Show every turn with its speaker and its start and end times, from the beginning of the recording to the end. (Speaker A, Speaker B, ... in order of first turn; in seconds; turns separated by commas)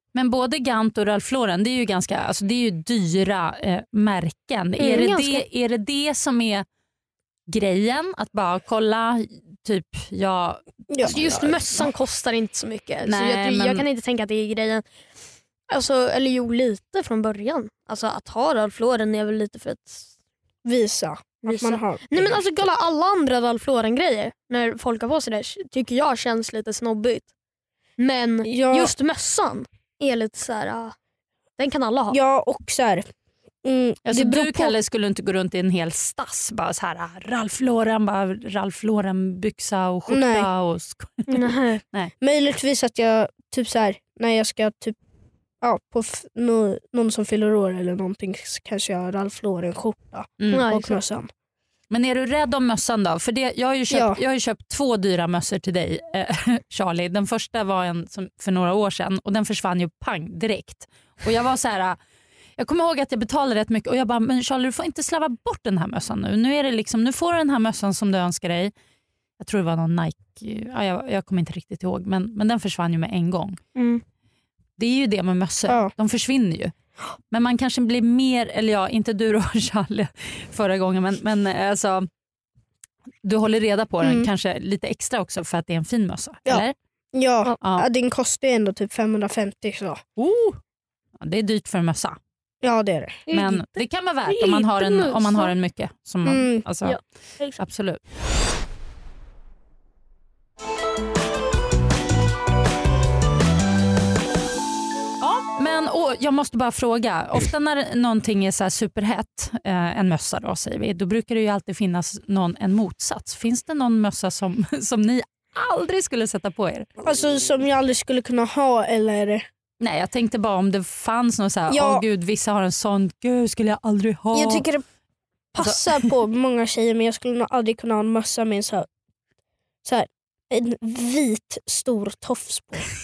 Speaker A: 0.1-6.6, Speaker B: 4.8-5.4, Speaker A: 7.5-11.8, Speaker B: 11.0-14.8, Speaker A: 13.1-13.8, Speaker B: 15.7-20.1, Speaker C: 20.6-22.6, Speaker B: 21.4-27.3, Speaker B: 28.0-30.9, Speaker C: 28.4-28.9, Speaker B: 31.6-32.2, Speaker C: 32.1-33.0, Speaker C: 33.6-34.7, Speaker A: 34.0-42.1, Speaker C: 40.1-40.5, Speaker B: 41.3-41.8, Speaker C: 42.2-45.0, Speaker C: 45.6-51.3, Speaker A: 50.4-50.6, Speaker B: 50.5-51.0, Speaker A: 51.9-62.0, Speaker C: 53.9-54.2, Speaker A: 62.6-68.7, Speaker A: 69.4-73.6, Speaker B: 73.8-74.0, Speaker A: 74.8-76.7, Speaker A: 77.3-82.1, Speaker A: 83.2-86.7, Speaker C: 84.0-84.3, Speaker C: 86.5-90.0, Speaker A: 90.2-90.6, Speaker A: 91.2-92.2, Speaker C: 92.6-93.2, Speaker B: 93.3-95.5, Speaker A: 93.3-97.0, Speaker C: 96.2-96.6, Speaker B: 96.8-97.6, Speaker A: 97.6-98.0, Speaker A: 105.2-116.9, Speaker C: 117.0-119.4, Speaker A: 119.8-124.6, Speaker C: 121.7-122.0, Speaker C: 124.3-124.8, Speaker C: 125.5-128.9, Speaker A: 125.6-126.1, Speaker C: 129.8-132.9